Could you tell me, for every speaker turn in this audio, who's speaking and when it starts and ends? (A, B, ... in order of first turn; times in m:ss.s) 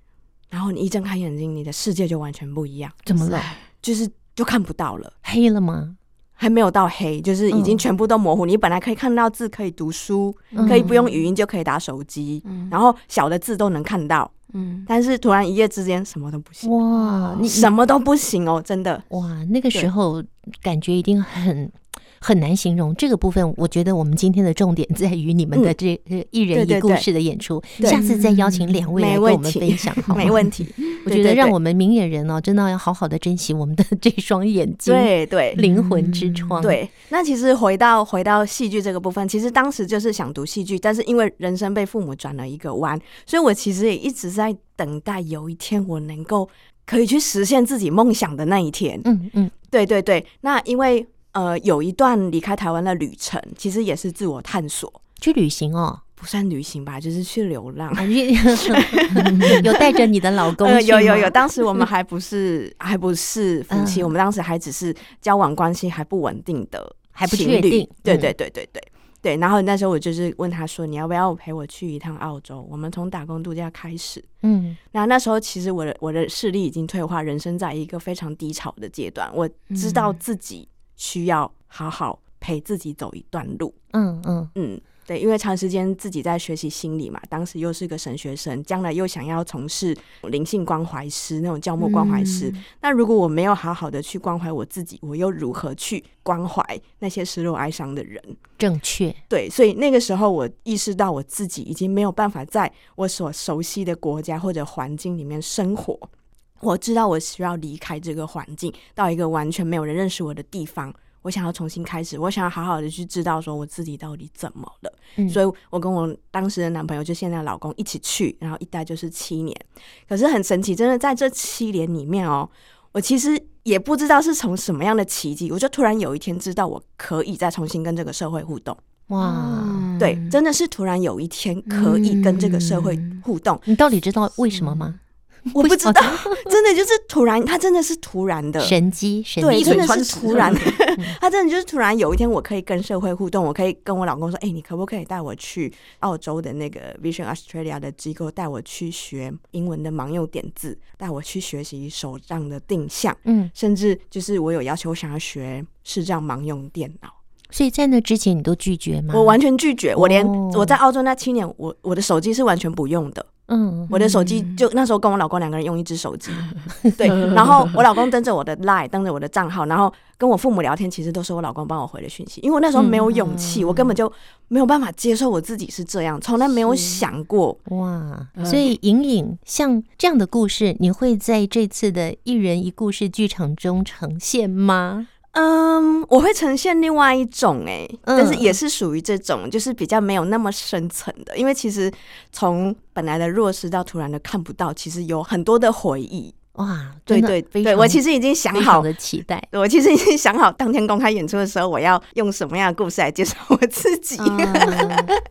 0:00.5-0:05.1 A
0:03.1-0:03.5 B
0:05.2-0:06.0 B
0:06.4-0:14.3 A
0:07.5-0:07.9 B
0:10.5-0:11.1 B
0:10.6-0:11.2 C
0:12.4-0:12.8 C
0:14.5-0:14.9 C
0:14.9-0:16.7 A
0:16.6-0:17.7 B
0:17.0-0:17.4 C
0:17.4-0:19.0 A
0:19.1-0:30.5 B
0:26.5-0:27.1 A
0:27.8-0:28.8 C
0:29.0-0:31.6 A
0:31.1-0:36.8 B
0:34.9-0:35.6 A
0:35.6-0:36.6 C
0:36.6-0:49.1 A
0:49.0-0:49.5 B
0:49.7-0:55.0 A
0:55.2-0:56.0 B
0:56.2-0:59.7 A
0:58.0-1:01.4 B
1:00.6-1:14.3 A
1:03.7-1:04.1 B
1:07.2-1:08.3 B
1:14.4-1:14.8 B
1:14.9-1:23.8 A
1:19.7-1:20.2 C
1:23.9-1:24.5 B
1:24.6-1:38.4 A
1:31.8-1:32.6 C
1:38.6-1:39.2 B
1:39.3-1:46.1 A
1:46.6-2:08.8 A
2:09.1-2:09.9 B
2:09.2-2:10.4 C
2:10.0-2:13.6 A
2:11.7-2:13.2 C
2:13.7-2:15.0 B
2:14.5-2:14.9 C
2:15.5-2:16.5 B
2:15.5-2:18.8 A
2:18.6-2:21.2 B
2:19.4-2:37.2 A
2:19.5-2:20.7 C
2:33.2-2:33.5 B
2:37.5-2:39.4 B
2:39.1-2:43.3 A
2:40.0-2:40.8 B
2:43.5-2:43.9 B
2:43.9-2:57.6 A
2:44.0-2:44.6 C
2:52.8-2:53.6 B
2:57.7-3:05.1 B
2:58.4-2:58.6 C
3:05.3-3:16.3 A
3:08.1-3:08.6 B
3:16.6-3:19.5 B
3:17.1-3:18.9 A
3:19.5-3:25.1 A
3:24.2-3:25.1 B